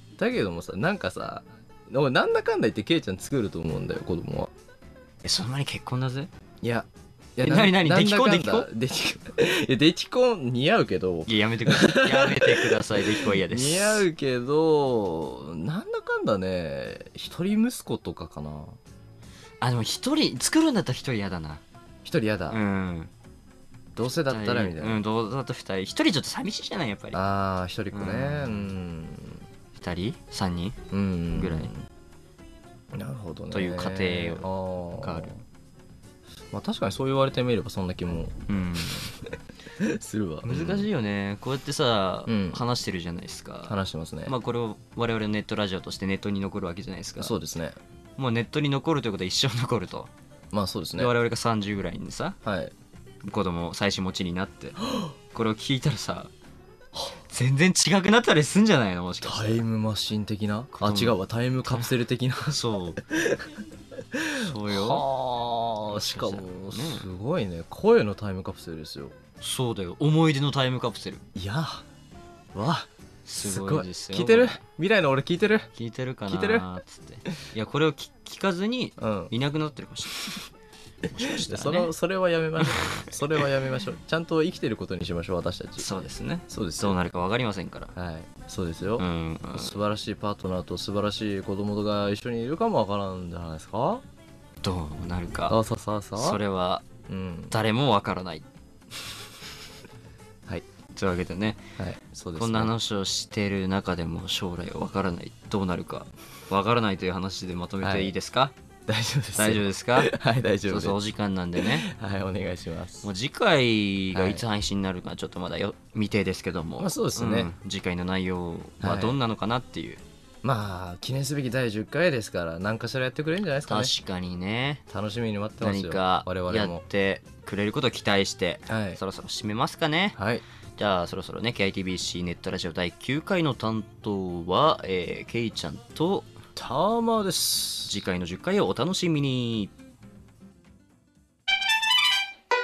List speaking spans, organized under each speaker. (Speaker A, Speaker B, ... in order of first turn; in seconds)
Speaker A: 0.2-4.5, 6.6-18.8, 22.0-22.6, 23.9-25.0, 27.1-29.4, 30.9-31.8, 32.9-35.4, 36.5-39.1, 39.8-40.9, 42.3-42.6, 43.7-44.4, 47.2-47.8, 50.5-51.1, 52.4-52.7, 59.2-63.5, 64.1-69.2, 71.3-71.8, 72.5-72.9, 73.4-75.7, 76.3-76.7, 79.0-79.3, 81.2-87.0, 88.0-94.0, 95.5-96.4, 97.1-97.5, 101.8-102.7, 107.8-108.1, 108.9-111.0, 111.6-113.1, 114.1-114.5, 116.8-117.5, 118.8-119.2, 120.4-123.9, 124.9-126.8, 128.7-129.0, 130.2-130.4, 136.6-138.0
Speaker B: 5.2-6.3, 7.4-8.7, 11.3-14.1, 19.6-21.6, 22.5-23.1, 24.3-27.2, 27.9-28.7, 29.8-30.8, 31.3-31.7, 33.5-34.5, 35.0-35.3, 38.5-39.1, 40.4-43.8, 44.3-47.4, 48.2-50.1, 51.0-52.4, 53.2-56.3, 57.3-59.6, 60.8-61.2, 62.5-63.0, 64.3-65.0, 65.9-67.1, 69.4-71.3, 73.3-74.6, 75.8-80.4, 81.0-81.9, 82.6-83.1, 85.8-87.9, 89.0-89.7, 94.6-95.6, 96.2-96.9, 97.5-98.5, 101.0-101.6, 102.4-108.5, 109.4-110.1, 110.7-111.9, 113.0-120.0, 123.7-124.8, 125.6-130.2, 130.8-136.3, 137.9-139.7